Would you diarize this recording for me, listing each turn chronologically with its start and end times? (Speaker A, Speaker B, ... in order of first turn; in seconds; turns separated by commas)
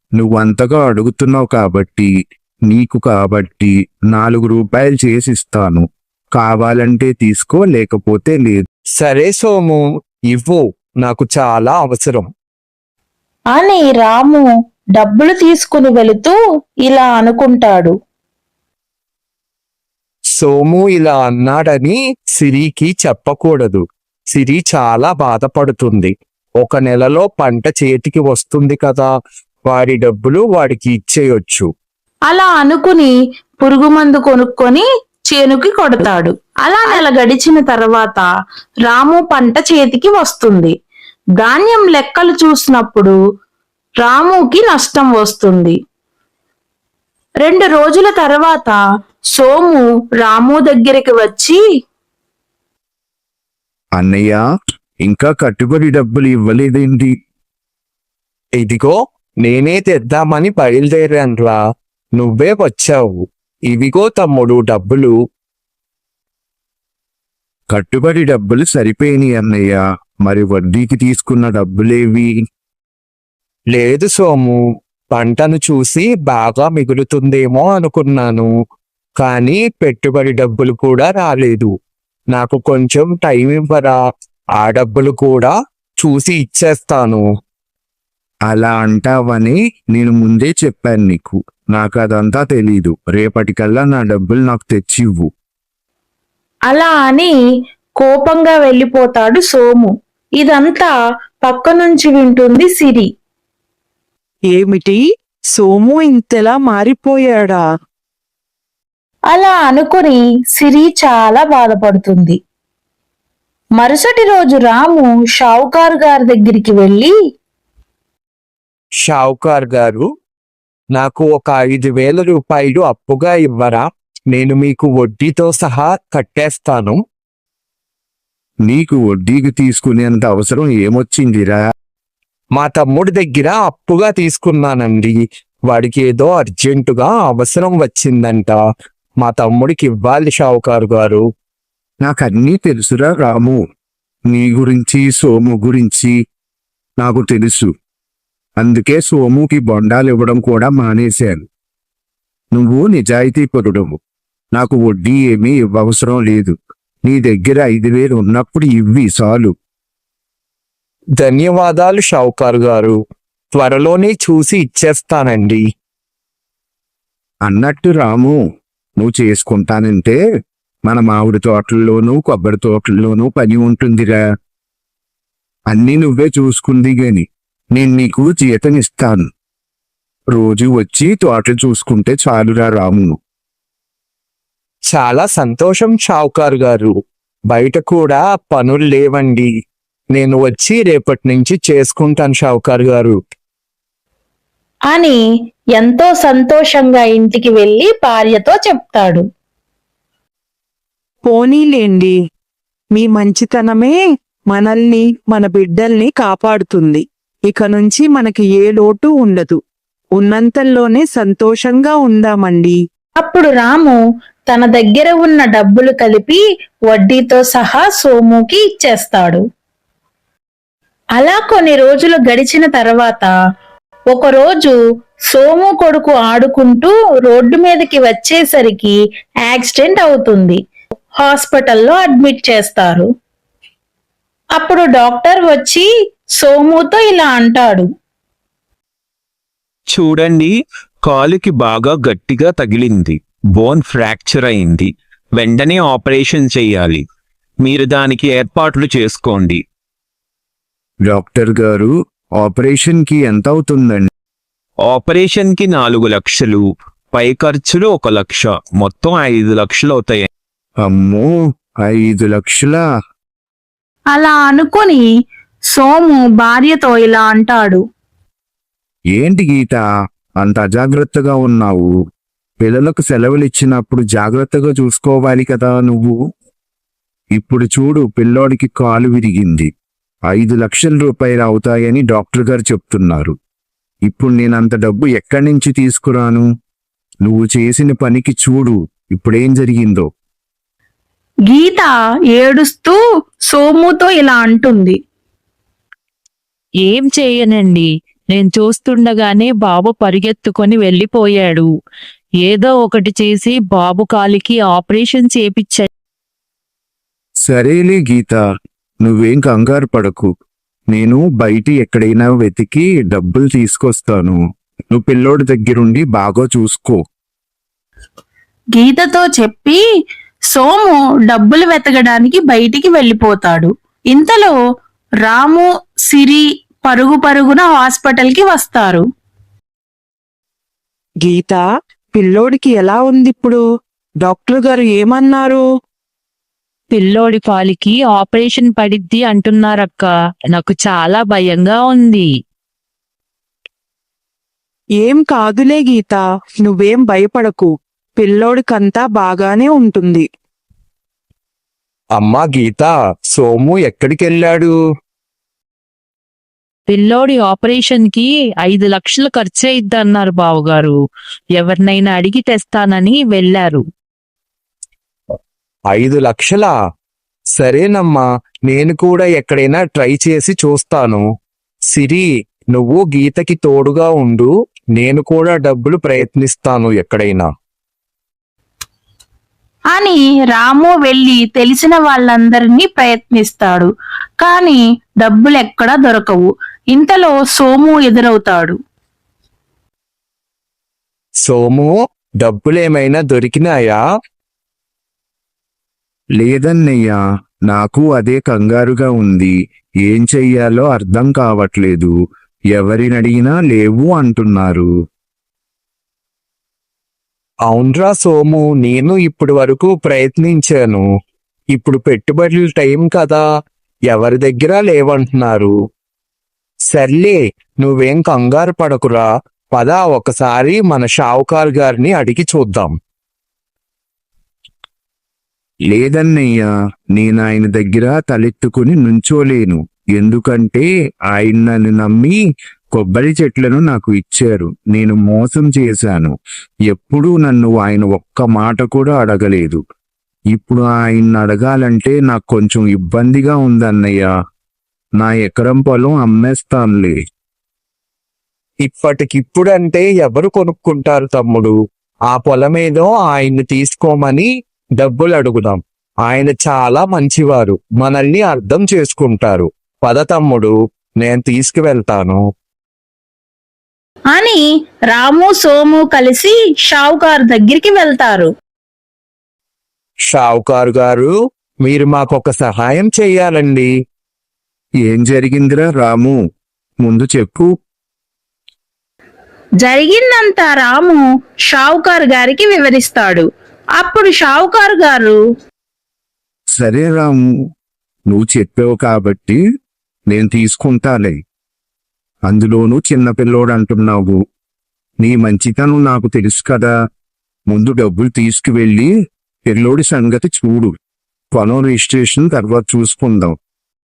Speaker A: 0.2-2.1, Speaker A: 2.7-8.6, Speaker B: 9.0-9.8, Speaker B: 10.3-12.3, Speaker C: 13.5-17.9, Speaker B: 20.3-23.8, Speaker B: 24.3-29.1, Speaker B: 29.7-31.7, Speaker C: 32.3-38.2, Speaker C: 38.9-40.7, Speaker C: 41.4-43.1, Speaker C: 44.0-45.8, Speaker C: 47.4-48.8, Speaker C: 49.3-51.6, Speaker A: 53.9-54.4, Speaker A: 55.0-57.1, Speaker B: 58.6-61.6, Speaker B: 62.2-65.1, Speaker A: 67.7-72.3, Speaker B: 73.7-74.5, Speaker B: 75.1-78.5, Speaker B: 79.2-81.7, Speaker B: 82.3-84.0, Speaker B: 84.6-87.2, Speaker A: 88.5-95.3, Speaker C: 96.7-97.3, Speaker C: 98.0-100.9, Speaker C: 101.4-103.1, Speaker D: 104.5-105.0, Speaker D: 105.5-107.6, Speaker C: 109.3-112.4, Speaker C: 113.8-117.1, Speaker B: 119.0-120.0, Speaker B: 120.9-127.0, Speaker A: 128.7-131.7, Speaker B: 132.5-135.2, Speaker B: 135.7-138.6, Speaker B: 139.2-141.2, Speaker A: 142.0-143.6, Speaker A: 144.3-146.1, Speaker A: 147.0-147.7, Speaker A: 148.6-151.4, Speaker A: 152.5-154.0, Speaker A: 154.5-156.5, Speaker A: 157.0-159.5, Speaker B: 161.2-162.9, Speaker B: 163.5-165.6, Speaker A: 167.4-168.4, Speaker A: 169.0-170.2, Speaker A: 170.8-174.2, Speaker A: 175.7-179.3, Speaker A: 180.3-183.2, Speaker B: 184.9-186.9, Speaker B: 187.5-189.5, Speaker B: 190.1-193.2, Speaker C: 194.9-195.2, Speaker C: 195.8-199.2, Speaker D: 201.2-202.1, Speaker D: 202.9-204.0, Speaker D: 204.5-209.6, Speaker D: 210.2-212.8, Speaker C: 213.2-214.0, Speaker C: 214.5-216.4, Speaker C: 216.9-219.4, Speaker C: 221.2-223.3, Speaker C: 224.1-224.8, Speaker C: 225.3-230.6, Speaker C: 231.2-233.1, Speaker C: 234.6-235.9, Speaker C: 236.4-237.9, Speaker E: 239.9-247.1, Speaker E: 247.6-249.6, Speaker A: 251.1-254.1, Speaker E: 254.8-260.3, Speaker A: 260.8-262.8, Speaker C: 264.1-265.0, Speaker C: 265.7-267.8, Speaker A: 269.1-269.8, Speaker A: 270.4-271.9, Speaker A: 272.6-276.1, Speaker A: 277.3-279.7, Speaker A: 280.3-283.3, Speaker A: 284.1-286.4, Speaker A: 287.2-290.1, Speaker C: 291.5-293.0, Speaker C: 293.5-295.0, Speaker F: 296.9-301.6, Speaker F: 302.4-305.9, Speaker A: 307.4-308.4, Speaker A: 309.0-310.3, Speaker A: 310.9-314.4, Speaker A: 314.9-317.0, Speaker C: 318.8-319.8, Speaker C: 320.5-324.5, Speaker C: 325.2-329.0, Speaker D: 331.2-331.6, Speaker D: 332.1-333.6, Speaker D: 334.2-335.6, Speaker F: 336.9-342.2, Speaker D: 345.0-350.2, Speaker B: 352.1-354.7, Speaker F: 356.9-360.9, Speaker F: 361.6-363.8, Speaker B: 365.9-366.7, Speaker B: 367.6-371.2, Speaker B: 371.9-377.5, Speaker C: 379.9-388.8, Speaker B: 391.4-394.0, Speaker A: 396.4-399.5, Speaker A: 400.0-402.1, Speaker A: 402.7-404.9, Speaker B: 407.7-411.0, Speaker B: 411.7-413.4, Speaker B: 414.1-415.7, Speaker B: 416.9-422.9, Speaker A: 425.9-432.4, Speaker A: 432.9-436.3, Speaker A: 436.9-439.8, Speaker A: 440.5-444.3, Speaker A: 445.2-447.2, Speaker B: 448.8-451.7, Speaker B: 452.3-454.5, Speaker B: 455.0-462.4, Speaker C: 464.3-464.6, Speaker C: 465.1-468.5, Speaker B: 470.3-471.3, Speaker B: 471.8-473.9, Speaker A: 475.1-476.4, Speaker A: 477.0-477.7, Speaker C: 479.8-483.4, Speaker C: 484.0-485.4, Speaker A: 486.8-487.4, Speaker A: 488.3-489.6, Speaker A: 490.3-491.4, Speaker A: 492.4-494.4, Speaker A: 495.2-496.9, Speaker A: 497.7-499.1, Speaker A: 499.7-500.9, Speaker A: 501.5-503.5